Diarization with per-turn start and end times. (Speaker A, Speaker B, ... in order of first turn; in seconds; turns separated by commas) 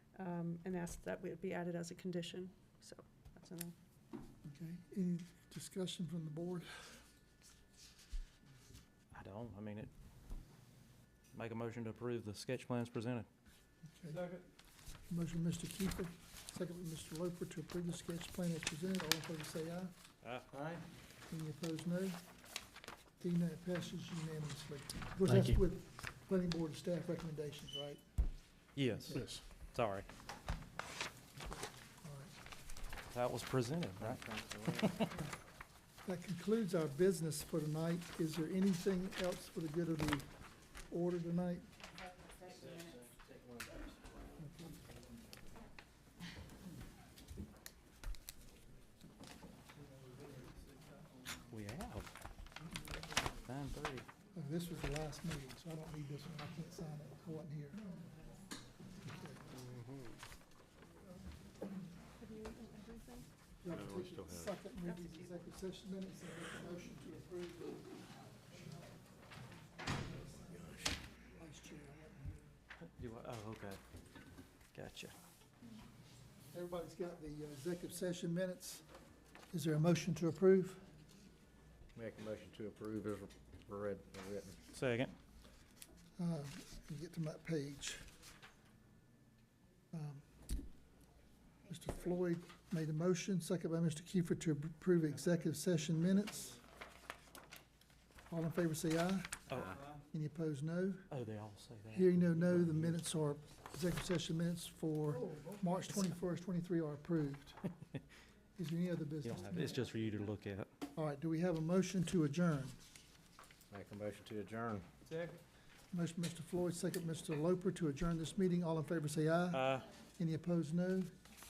Speaker A: 0.1-3.8, Speaker B: 4.5-7.0, Speaker C: 9.1-9.9, Speaker C: 11.3-13.3, Speaker B: 13.9-14.3, Speaker B: 15.1-19.9, Speaker D: 20.5-20.8, Speaker B: 21.3-22.2, Speaker B: 23.2-28.0, Speaker C: 25.3-25.6, Speaker C: 28.8-30.1, Speaker B: 29.0-29.3, Speaker B: 32.0-32.3, Speaker C: 33.1-34.2, Speaker D: 34.0-35.0, Speaker C: 34.8-35.1, Speaker B: 36.0-40.3, Speaker B: 40.9-41.7, Speaker D: 42.4-43.9, Speaker B: 44.4-44.8, Speaker C: 51.5-52.1, Speaker C: 53.5-54.1, Speaker B: 54.3-57.9, Speaker B: 59.1-59.4, Speaker A: 62.2-63.3, Speaker B: 63.6-67.9, Speaker D: 63.9-64.3, Speaker B: 71.4-72.4, Speaker C: 72.8-73.8, Speaker C: 74.7-75.2, Speaker B: 76.5-78.8, Speaker B: 79.5-80.8, Speaker D: 82.0-84.6, Speaker C: 84.7-85.2, Speaker B: 86.2-88.1, Speaker B: 89.9-90.2, Speaker B: 91.7-96.6, Speaker B: 98.3-99.4, Speaker C: 99.5-99.9, Speaker B: 100.0-101.1, Speaker C: 101.1-103.0, Speaker B: 101.9-107.6, Speaker B: 108.6-109.8, Speaker C: 109.2-110.7, Speaker B: 111.0-112.8, Speaker D: 113.7-114.9, Speaker C: 115.1-115.3, Speaker B: 115.9-119.7, Speaker C: 119.5-119.9, Speaker B: 120.2-121.1